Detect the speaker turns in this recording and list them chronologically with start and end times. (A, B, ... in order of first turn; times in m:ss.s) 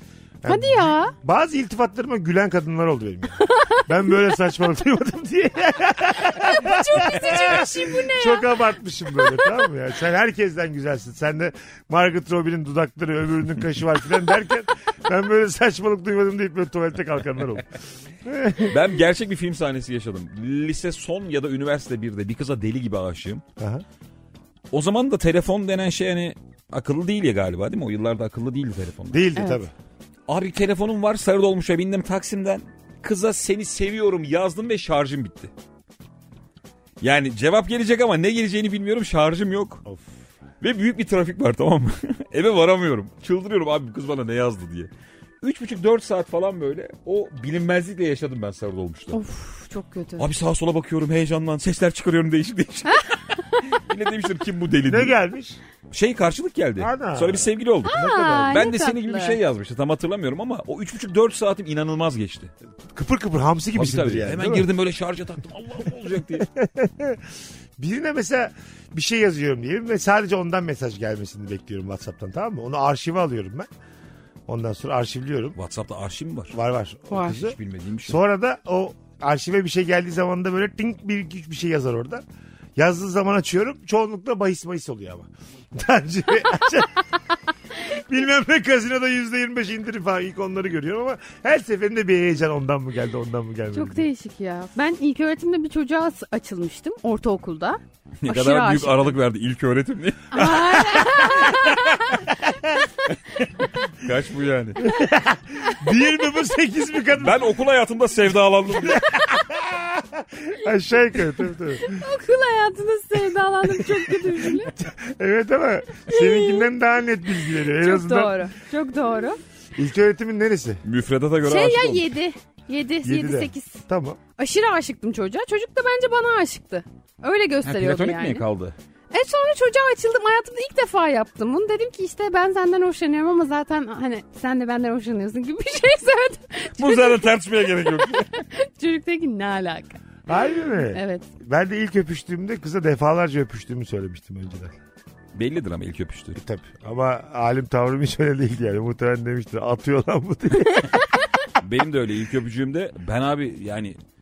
0:00.4-0:17.6 A
0:00.5-0:01.1 B
0:03.5-0:03.8 B
0:06.4-0:08.5 B
0:18.2-0:18.8 A
0:18.7-0:23.4 C
0:23.6-0:23.8 A
0:24.7-0:29.2 C
0:29.1-0:29.7 A
0:29.4-0:29.6 B
0:30.3-0:35.5 C
0:37.0-0:39.8 C
0:40.6-0:44.9 C
0:45.4-0:49.2 C
0:49.1-0:50.3 B
0:50.2-0:53.1 C
0:53.7-0:55.1 C
0:54.9-0:55.6 A
0:55.9-1:02.5 C
0:56.8-0:58.7 A
0:57.8-0:59.4 B
1:02.9-1:04.7 A
1:03.7-1:06.5 C
1:06.4-1:07.2 A
1:07.8-1:13.7 A
1:14.5-1:15.6 A
1:15.6-1:16.5 C
1:16.5-1:22.2 A
1:17.1-1:18.2 C
1:22.8-1:27.0 A
1:27.8-1:34.1 A
1:33.7-1:39.1 B
1:38.2-1:41.0 C
1:40.3-1:42.3 B
1:44.0-1:44.8 C
1:44.8-1:47.5 A
1:47.2-1:49.0 C
1:48.8-1:52.0 A
1:51.8-1:54.7 B
1:53.8-1:58.4 A
1:56.1-1:56.7 B
1:57.7-1:59.4 B
1:59.8-2:00.8 A
2:00.8-2:02.1 C
2:01.4-2:03.8 B
2:03.0-2:04.2 A
2:04.4-2:08.4 B
2:07.6-2:08.7 C
2:09.1-2:17.2 B
2:16.8-2:18.4 C
2:17.9-2:20.0 B
2:20.3-2:24.8 A
2:20.8-2:21.2 B
2:25.3-2:26.4 C
2:26.4-2:31.0 A
2:31.6-2:34.0 C